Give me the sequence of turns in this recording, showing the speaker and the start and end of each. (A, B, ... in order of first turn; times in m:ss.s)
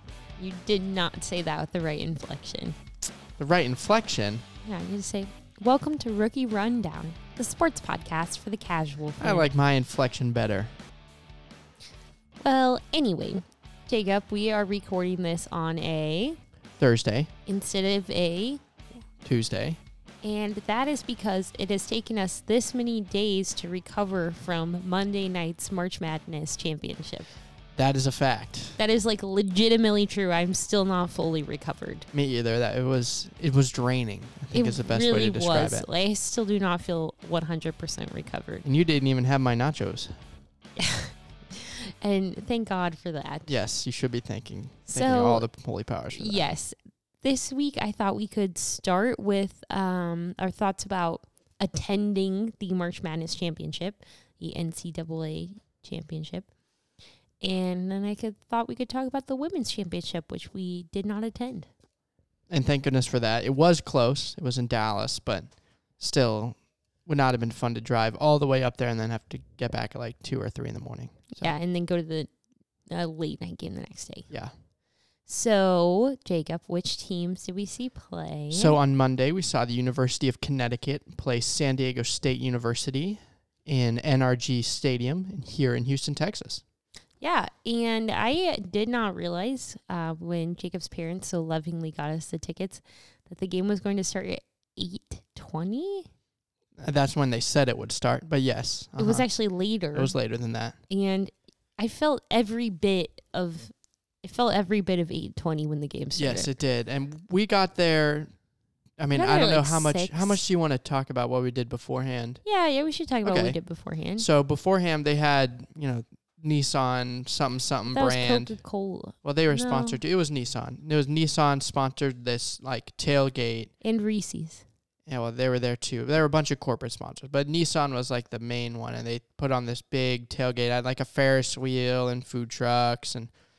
0:00.4-0:02.8 A
0:03.4-0:04.4 B
0:04.6-0:09.5 A
0:09.2-0:10.7 B
0:12.4-0:16.4 A
0:16.8-0:17.3 B
0:17.5-0:18.6 A
0:19.2-0:19.8 B
0:20.2-0:27.3 A
0:27.8-0:28.8 B
0:28.8-0:32.1 A
0:32.1-0:35.9 B
0:34.5-0:38.6 A
0:38.6-0:40.2 B
0:40.8-0:43.6 A
0:43.5-0:46.4 B
0:44.9-0:45.5 A
0:46.2-0:56.5 A
0:57.4-1:01.7 A
1:02.5-1:11.5 B
1:11.3-1:12.3 A
1:12.9-1:14.3 A
1:15.3-1:18.8 A
1:18.5-1:26.6 B
1:27.2-1:36.1 A
1:36.8-1:39.3 B
1:39.0-1:40.2 A
1:39.9-1:40.8 B
1:40.9-1:46.5 A
1:46.2-1:48.3 B
1:49.0-1:52.4 B
1:49.1-1:50.4 A
1:52.4-1:54.3 A
1:53.2-1:53.6 B
1:54.2-1:58.6 B
1:57.9-2:00.0 A
1:59.2-2:03.7 B
2:03.8-2:04.6 A
2:05.1-2:13.3 B